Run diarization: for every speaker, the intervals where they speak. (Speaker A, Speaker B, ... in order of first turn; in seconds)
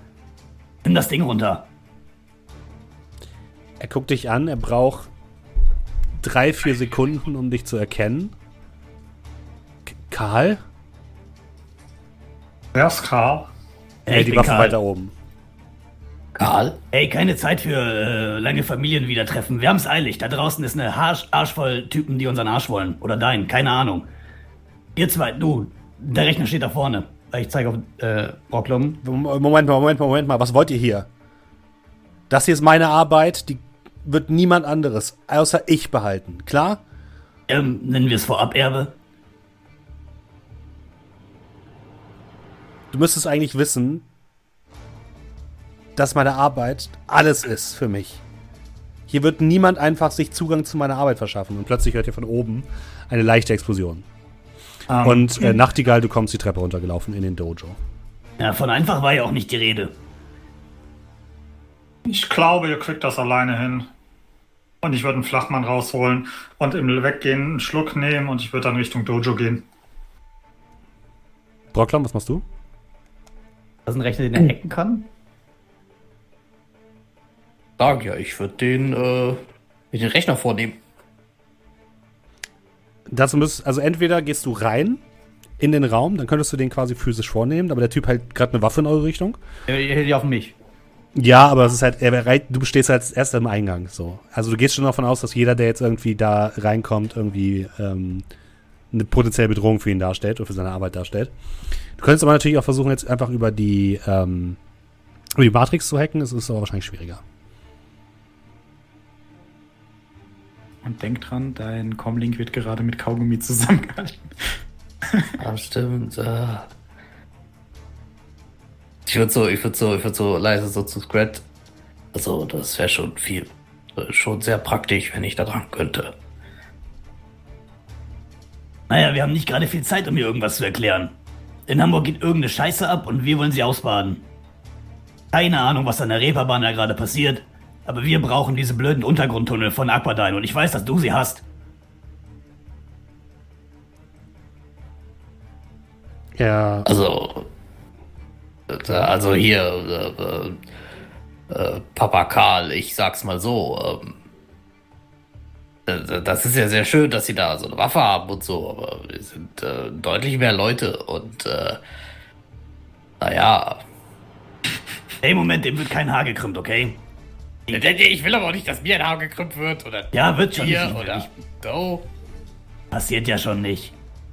Speaker A: 0.8-1.6, 14.1-14.8, 16.9-24.1, 24.9-27.7, 37.5-38.9, 58.4-59.9, 128.9-131.1, 131.7-134.2, 135.3-141.4, 165.2-167.0, 170.1-171.3, 172.9-173.9
Speaker B: 3.8-5.1, 6.2-8.3, 9.8-10.6, 14.1-15.1, 29.0-31.1, 32.3-36.8, 42.9-44.0, 46.0-48.2, 49.1-54.0, 55.0-57.8, 71.7-72.4, 83.1-85.0, 85.6-89.4, 91.1-98.2, 98.9-101.3, 102.0-104.6, 105.3-107.2, 146.4-146.9
Speaker C: 12.7-13.5, 54.9-55.6, 62.0-63.9, 64.8-69.7
Speaker D: 16.3-16.8, 77.8-80.8, 115.4-116.7, 119.0-121.4, 122.1-126.1, 146.8-147.5, 148.7-150.6, 151.5-154.2, 155.9-161.8, 163.2-163.8, 167.7-172.0
Speaker E: 27.4-29.0, 73.8-75.1, 89.7-90.5
Speaker F: 110.8-115.3